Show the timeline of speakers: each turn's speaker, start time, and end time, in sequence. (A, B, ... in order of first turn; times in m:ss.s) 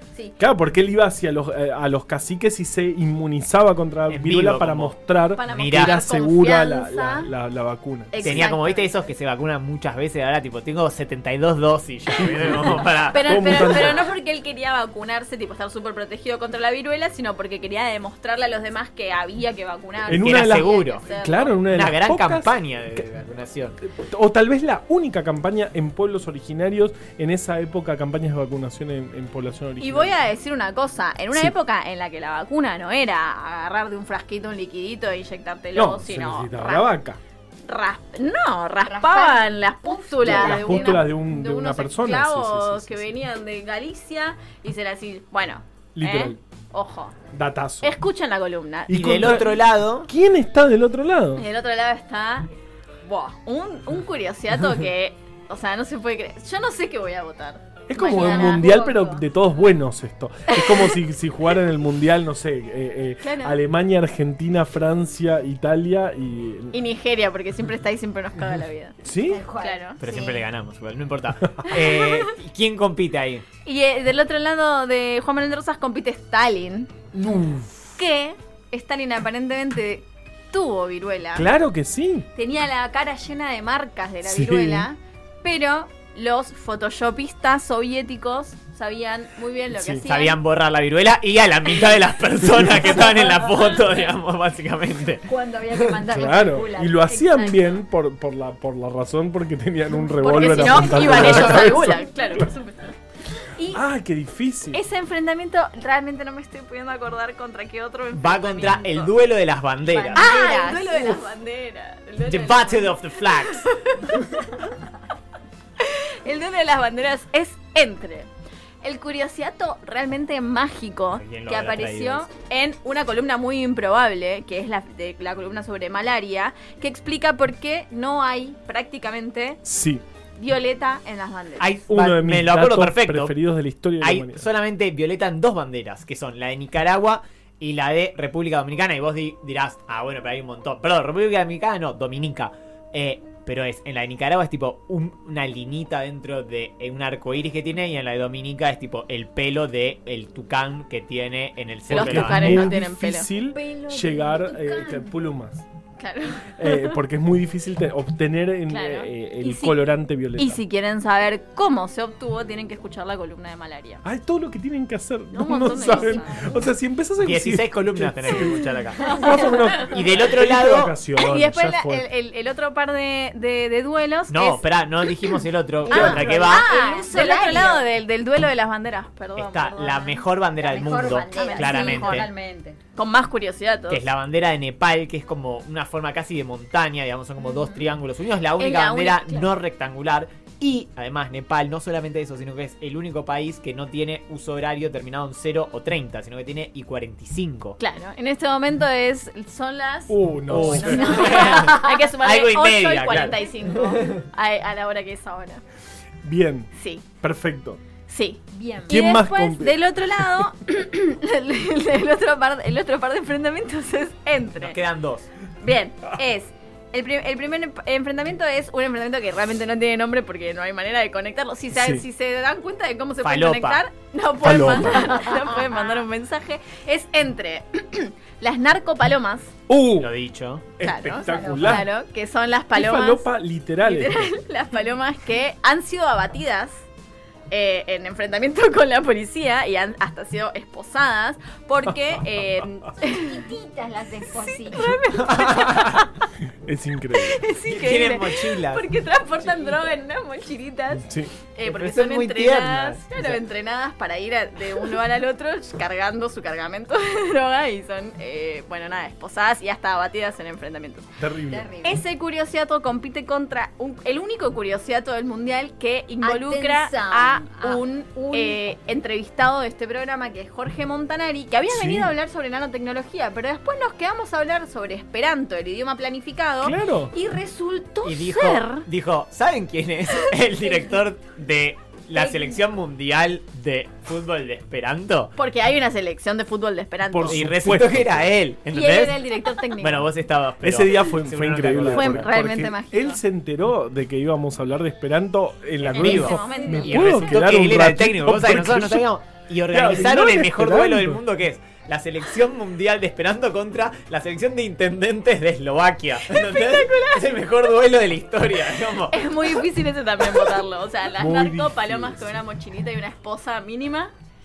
0:00.4-0:08.5 A
0:04.1-0:05.0 B
0:05.3-0:07.3 C
0:05.5-0:06.0 B
0:08.1-0:09.0 C
0:08.2-0:14.0 B
0:13.1-0:21.6 C
0:13.2-0:14.1 A
0:20.1-0:23.1 A
0:20.1-0:21.0 B
0:21.6-0:23.8 B
0:23.8-0:30.1 A
0:29.8-0:36.9 C
0:35.7-0:37.2 A
0:37.6-0:47.2 C
0:38.8-0:41.1 D
0:40.2-0:43.1 A
0:45.9-0:46.4 A
0:47.3-0:48.0 A
0:47.8-0:49.0 C
0:48.9-0:51.4 A
0:48.9-0:50.1 B
0:51.4-0:52.5 C
0:53.0-0:59.0 C
0:57.9-1:06.7 A
0:58.0-0:59.2 D
1:00.5-1:00.8 C
1:03.2-1:03.6 C
1:06.7-1:09.0 C
1:09.0-1:09.4 A
1:09.2-1:10.4 D
1:09.6-1:10.1 C
1:10.0-1:13.4 B
1:11.6-1:12.3 C
1:13.6-1:17.0 C
1:17.1-1:17.7 A
1:17.9-1:21.5 C
1:21.3-1:22.3 A
1:22.3-1:30.4 C
1:24.2-1:24.9 A
1:29.7-1:30.0 A
1:30.0-1:35.3 B
1:32.4-1:33.2 A
1:35.3-1:37.1 D
1:36.1-1:42.5 A
1:37.1-1:37.8 C
1:40.2-1:42.9 C
1:40.3-1:41.8 D
1:43.6-1:43.8 C
1:43.7-1:44.8 A
1:44.7-1:49.1 C
1:48.1-1:50.3 B
1:49.9-1:51.3 D
1:50.1-1:54.5 C
1:52.3-1:53.7 B
1:55.8-1:58.3 C
1:58.8-2:09.6 C
2:01.1-2:02.2 B
2:09.6-2:10.0 A
2:10.4-2:11.7 C
2:11.6-2:13.4 B
2:11.9-2:14.5 A
2:14.0-2:32.7 B
2:31.9-2:35.6 A
2:31.9-2:33.3 C
2:33.4-2:35.2 D
2:36.0-2:37.0 C
2:36.6-2:40.6 A
2:38.7-2:44.0 C
2:44.0-2:52.0 A
2:45.3-2:46.6 C
2:45.6-2:46.5 D
2:47.2-2:49.2 B
2:49.0-2:49.9 C
2:49.8-2:50.9 B
2:51.2-2:54.6 C
2:54.3-2:56.7 B
2:55.9-2:57.8 D
2:55.9-3:00.2 C
2:55.9-2:56.2 A
2:59.4-3:02.3 B
3:00.6-3:02.8 D
3:01.0-3:02.3 C
3:03.0-3:04.0 C
3:03.9-3:17.8 B
3:07.4-3:07.8 C
3:08.6-3:09.5 C
3:17.8-3:25.6 C
3:20.1-3:21.3 A
3:20.5-3:24.0 B
3:21.0-3:22.0 D
3:26.2-3:26.7 A
3:26.7-3:27.0 C
3:27.2-3:27.8 A
3:28.1-3:34.8 C
3:28.5-3:29.0 D
3:28.9-3:29.8 A
3:34.6-3:35.3 B
3:35.6-3:49.5 C
3:41.7-3:42.0 A
3:43.2-3:43.8 B
3:44.4-3:45.2 A
3:44.8-3:46.0 D
3:49.7-3:50.1 A
3:50.0-3:50.6 B
3:50.8-3:51.9 A
3:50.8-3:53.3 C
3:51.2-3:51.8 D
3:52.7-3:54.3 A
3:53.8-3:56.8 C
3:57.5-4:03.4 C
4:03.0-4:05.0 D
4:04.4-4:06.3 C
4:05.3-4:06.0 B
4:06.6-4:07.4 A
4:07.1-4:21.1 C
4:07.6-4:08.8 B
4:11.0-4:11.3 A
4:11.6-4:13.4 B
4:21.2-4:21.7 A
4:21.5-4:22.0 D
4:21.8-4:38.8 C
4:26.2-4:28.6 D
4:31.7-4:32.1 A
4:36.6-4:37.1 A
4:38.0-4:45.3 B
4:42.2-4:42.5 C
4:45.4-4:47.4 C
4:47.1-4:48.3 A
4:47.3-4:49.2 B
4:48.7-4:50.1 C
4:49.8-4:52.3 B
4:50.6-4:59.1 A
4:51.9-4:53.2 C
4:55.8-5:09.2 B
4:55.9-4:57.2 C
4:56.2-4:56.9 D
4:59.7-5:01.2 A
5:06.3-5:07.2 C
5:09.1-5:14.1 C
5:11.2-5:12.4 A